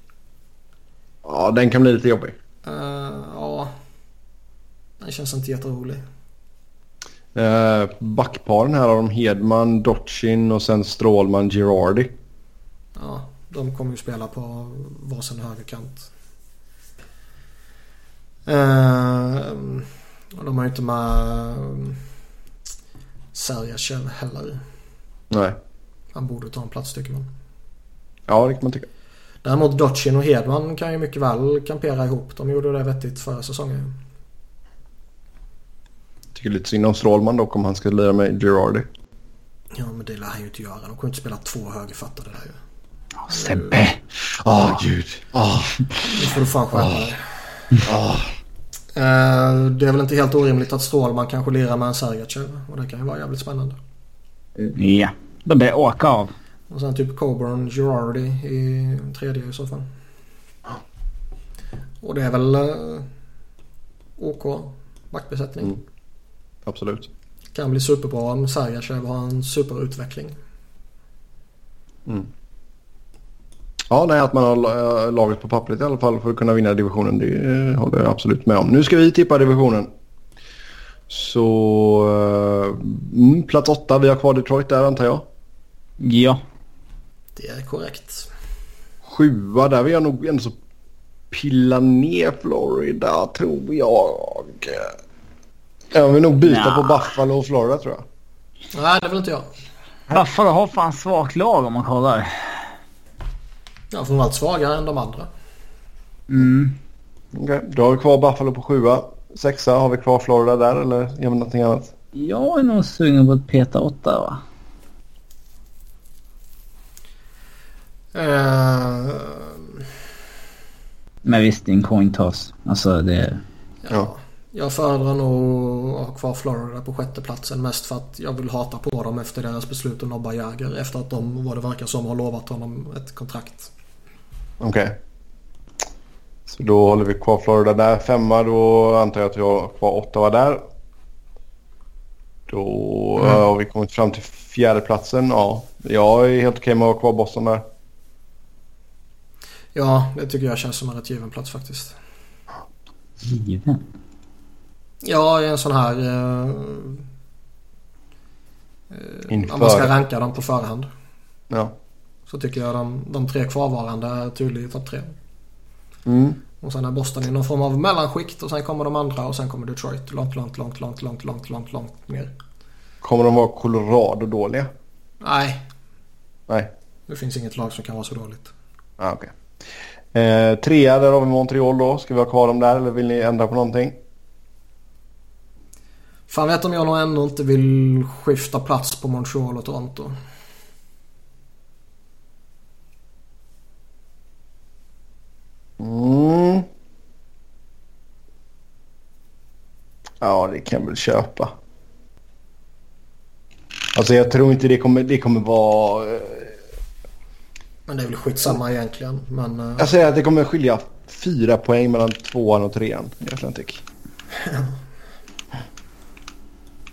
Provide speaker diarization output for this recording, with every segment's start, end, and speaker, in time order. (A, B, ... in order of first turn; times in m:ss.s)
0:01.2-0:02.4 A
0:02.6-0:03.7 B
0:05.0-0:06.0 B
0:07.3-0:12.1 A
0:13.0-0:16.1 B
0:18.5-0:22.0 B
0:23.3-0:24.6 B
0:25.3-0:25.6 A
0:26.1-0:27.3 B
0:28.3-0:28.9 A
0:29.4-0:33.9 B
0:36.3-0:38.9 A
0:39.7-0:42.6 B
0:43.2-0:44.0 C
0:43.3-0:43.8 B
0:44.3-0:45.8 A
0:46.1-0:47.7 B
0:47.8-0:48.3 A
0:48.9-0:53.8 B
0:54.8-0:56.3 C
0:56.7-0:59.9 B
1:02.0-1:03.1 B
1:04.2-1:05.8 B
1:06.6-1:07.1 A
1:07.5-1:10.3 B
1:13.9-1:19.9 A
1:21.1-1:25.3 A
1:26.0-1:26.4 C
1:27.4-1:28.3 B
1:29.0-1:30.5 A
1:31.3-1:34.9 A
1:35.9-1:38.0 A
1:36.4-1:37.1 C
1:38.7-1:39.5 B
1:40.1-1:42.7 C
1:43.9-1:45.3 B
1:46.3-1:46.8 C
1:47.3-1:51.9 A
1:52.1-1:54.4 C
1:58.1-1:59.6 B
2:01.2-2:03.4 C
2:03.8-2:13.7 B
2:14.6-2:15.0 A
2:16.5-2:20.6 A
2:22.5-2:27.6 A
2:29.7-2:32.0 B
2:33.2-2:33.8 C
2:35.0-2:37.0 B
2:38.9-2:40.9 B
2:39.3-2:39.9 A
2:41.5-2:41.7 A
2:42.3-2:45.1 B
2:46.0-2:46.4 A
2:46.6-2:52.3 B
2:53.0-2:54.7 A
2:55.2-2:55.6 B
2:57.1-2:58.5 B
2:59.0-2:59.3 A
3:00.1-3:04.0 A
3:06.3-3:10.2 B
3:15.8-3:16.7 A
3:20.2-3:21.5 A
3:23.9-3:26.6 A
3:27.9-3:29.9 B
3:29.8-3:33.8 A
3:34.4-3:34.7 B